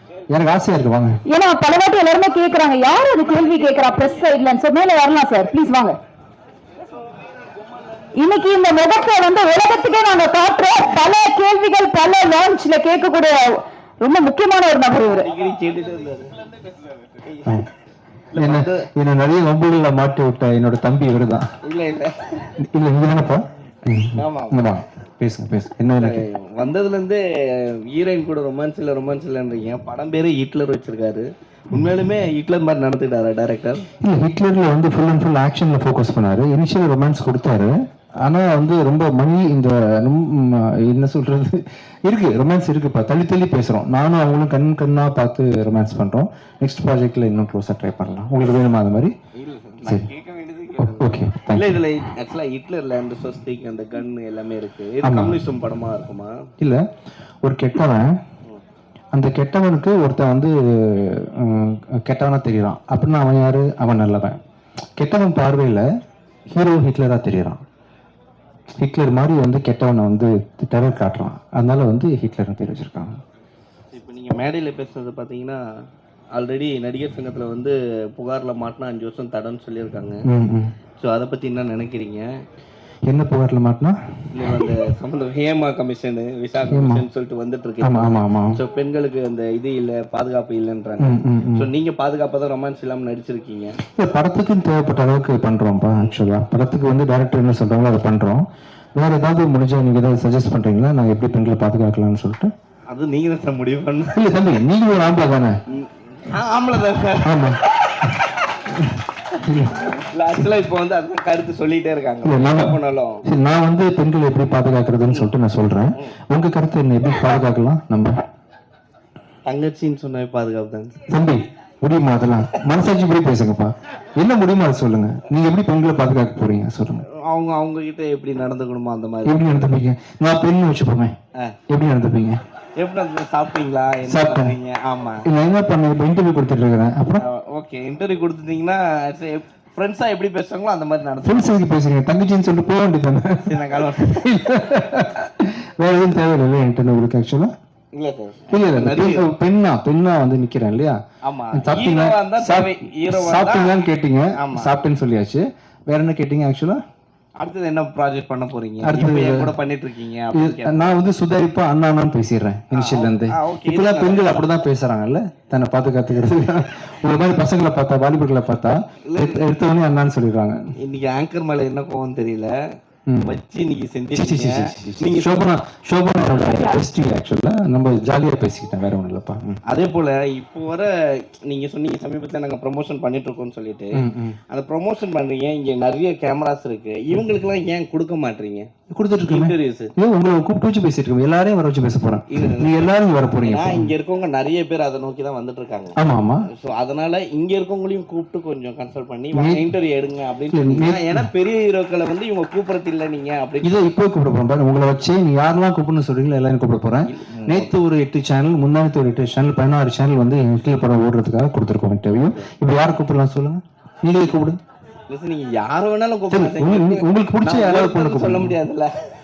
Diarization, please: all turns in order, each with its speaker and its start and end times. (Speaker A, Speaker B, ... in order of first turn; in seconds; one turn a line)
Speaker A: 0.3-1.2
Speaker B: 1.3-6.0
Speaker B: 8.1-15.3
Speaker C: 15.2-16.4
Speaker A: 17.4-17.7
Speaker C: 18.3-18.9
Speaker A: 18.4-21.4
Speaker C: 21.6-22.4
Speaker A: 22.6-26.2
Speaker C: 24.1-24.7
Speaker C: 26.0-33.9
Speaker A: 34.0-37.7
Speaker A: 38.2-49.1
Speaker C: 49.3-56.4
Speaker A: 50.8-51.8
Speaker A: 55.0-55.4
Speaker A: 57.4-58.1
Speaker A: 59.1-64.4
Speaker A: 65.0-65.9
Speaker A: 66.5-67.6
Speaker A: 68.7-73.2
Speaker C: 73.9-75.6
Speaker C: 76.3-80.2
Speaker A: 80.2-80.8
Speaker C: 81.0-82.3
Speaker A: 83.1-84.0
Speaker C: 84.3-93.8
Speaker A: 86.7-87.0
Speaker A: 87.8-88.6
Speaker A: 91.0-91.7
Speaker A: 93.8-102.5
Speaker C: 95.9-96.2
Speaker C: 102.9-104.5
Speaker A: 104.1-105.6
Speaker C: 105.7-108.1
Speaker A: 107.2-107.6
Speaker A: 108.7-109.9
Speaker C: 109.9-113.2
Speaker A: 112.2-118.2
Speaker C: 119.5-121.0
Speaker A: 121.1-127.0
Speaker C: 127.1-129.7
Speaker A: 129.2-131.2
Speaker A: 131.7-132.4
Speaker C: 132.8-135.2
Speaker A: 134.1-134.5
Speaker A: 135.2-137.2
Speaker C: 137.2-141.6
Speaker A: 141.2-147.5
Speaker C: 143.5-144.3
Speaker C: 147.9-149.3
Speaker A: 148.5-151.0
Speaker C: 151.2-154.7
Speaker A: 151.5-156.8
Speaker C: 157.4-161.1
Speaker A: 158.8-159.5
Speaker A: 160.3-170.6
Speaker C: 162.7-164.5
Speaker C: 169.0-169.5
Speaker C: 170.8-172.5
Speaker A: 173.1-173.4
Speaker C: 173.2-175.4
Speaker A: 174.1-179.6
Speaker C: 179.7-188.7
Speaker A: 183.9-184.4
Speaker A: 188.9-193.9
Speaker C: 189.2-189.9
Speaker C: 192.3-196.0
Speaker A: 195.9-196.5
Speaker C: 196.5-203.8
Speaker A: 199.3-199.6
Speaker A: 200.5-201.2
Speaker A: 203.6-214.6
Speaker C: 207.1-207.7
Speaker C: 215.1-218.9
Speaker A: 216.3-218.6